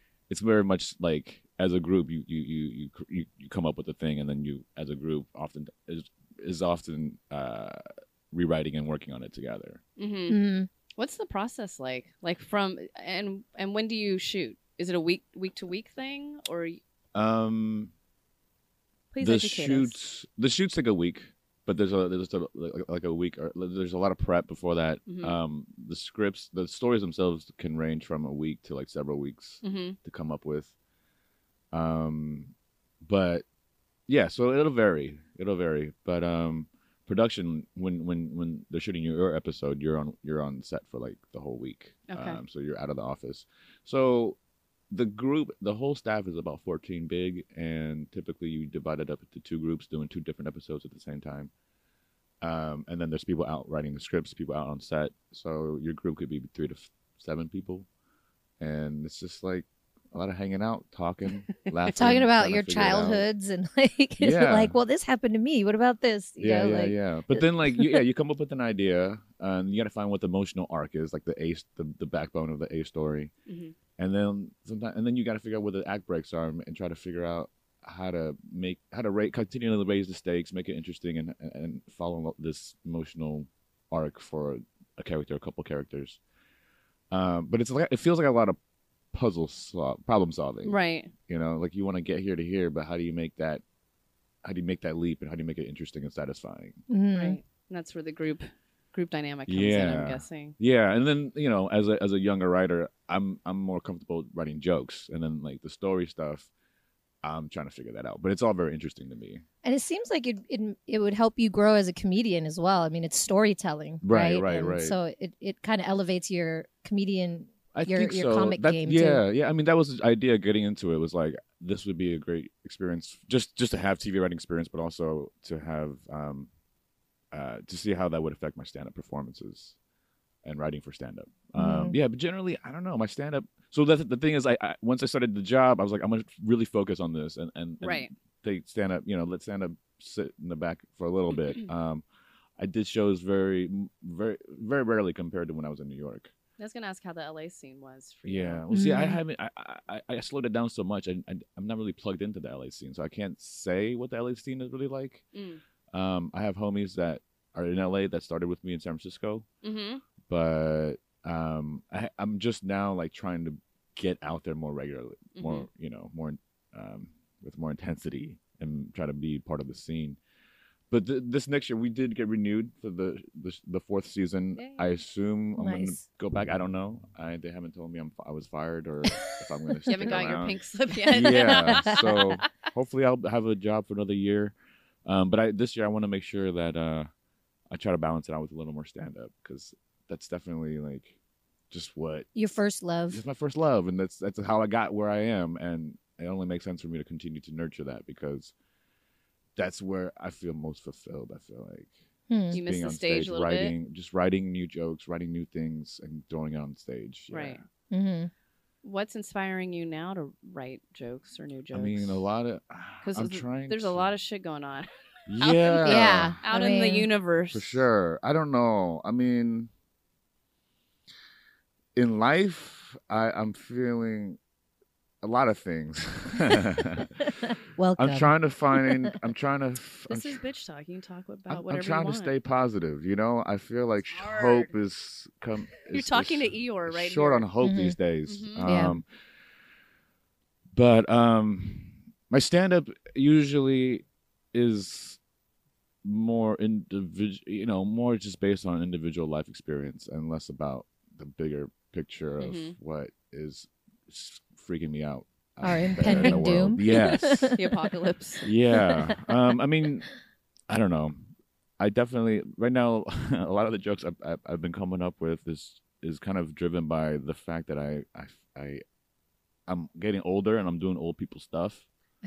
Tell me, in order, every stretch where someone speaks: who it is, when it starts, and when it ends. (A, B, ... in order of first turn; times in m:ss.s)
0:00.3-0:09.8 A
0:10.0-0:10.4 B
0:10.3-0:10.7 C
0:11.0-0:16.8 B
0:17.1-0:17.9 A
0:19.1-0:20.0 B
0:19.2-0:30.7 A
0:25.1-0:25.4 B
0:29.6-0:30.0 B
0:31.7-0:33.4 A
0:34.1-0:44.4 A
0:42.1-0:42.4 B
0:44.9-0:51.5 A
0:52.4-0:57.9 A
0:58.6-1:03.2 A
1:01.9-1:08.0 C
1:04.2-1:04.7 A
1:06.4-1:13.3 A
1:13.5-1:13.7 B
1:14.0-1:26.2 A
1:27.1-1:28.6 A
1:29.1-1:33.6 A
1:30.6-1:31.1 B
1:34.4-1:36.8 A
1:36.9-1:37.4 C
1:37.1-1:40.5 B
1:39.5-1:46.5 A
1:47.2-1:49.4 A
1:49.6-1:59.2 C
1:54.0-1:55.0 A
1:57.7-2:06.5 A
2:07.3-2:09.8 A
2:10.4-2:22.0 A
2:11.6-2:12.0 C
2:17.8-2:18.1 B
2:22.6-2:26.3 A
2:26.6-2:28.6 B
2:28.2-2:35.2 A
2:28.7-2:29.2 C
2:35.3-2:35.6 B
2:35.9-2:39.4 A
2:39.6-2:40.0 B
2:40.3-2:50.2 A
2:45.4-2:45.7 B
2:50.9-3:00.6 A
2:54.6-2:54.8 B
2:55.6-2:56.0 C
2:59.8-3:00.1 C
2:59.9-3:02.4 B
3:01.1-3:07.1 A
3:01.2-3:02.1 C
3:07.7-3:11.1 A
3:11.7-3:12.3 A
3:12.3-3:13.2 C
3:13.1-3:18.5 A
3:19.6-3:21.9 A
3:22.3-3:22.6 C
3:22.5-3:27.6 A
3:22.5-3:23.7 B
3:27.3-3:27.6 B
3:27.9-3:28.3 C
3:28.8-3:32.2 B
3:31.7-3:34.0 A
3:33.0-3:34.9 B
3:35.3-3:36.4 A
3:35.4-3:37.8 B
3:35.8-3:37.1 C
3:37.5-3:39.7 A
3:42.0-3:44.4 A
3:45.2-3:47.2 A
3:47.3-3:49.1 C
3:48.0-3:50.4 A
3:50.1-3:52.3 B
3:51.5-3:59.0 A
3:54.1-3:54.7 B
3:55.9-3:57.5 B
3:57.6-3:58.0 C
3:58.2-3:58.7 B
3:58.6-3:59.0 C
4:00.7-4:05.2 A
4:06.0-4:17.6 A
4:12.4-4:12.8 B
4:15.6-4:17.6 C
4:16.0-4:17.0 B
4:17.5-4:18.4 B
4:18.4-4:20.1 A
4:18.7-4:19.3 C
4:20.7-4:21.2 A
4:21.8-4:28.8 A
4:29.7-4:31.8 A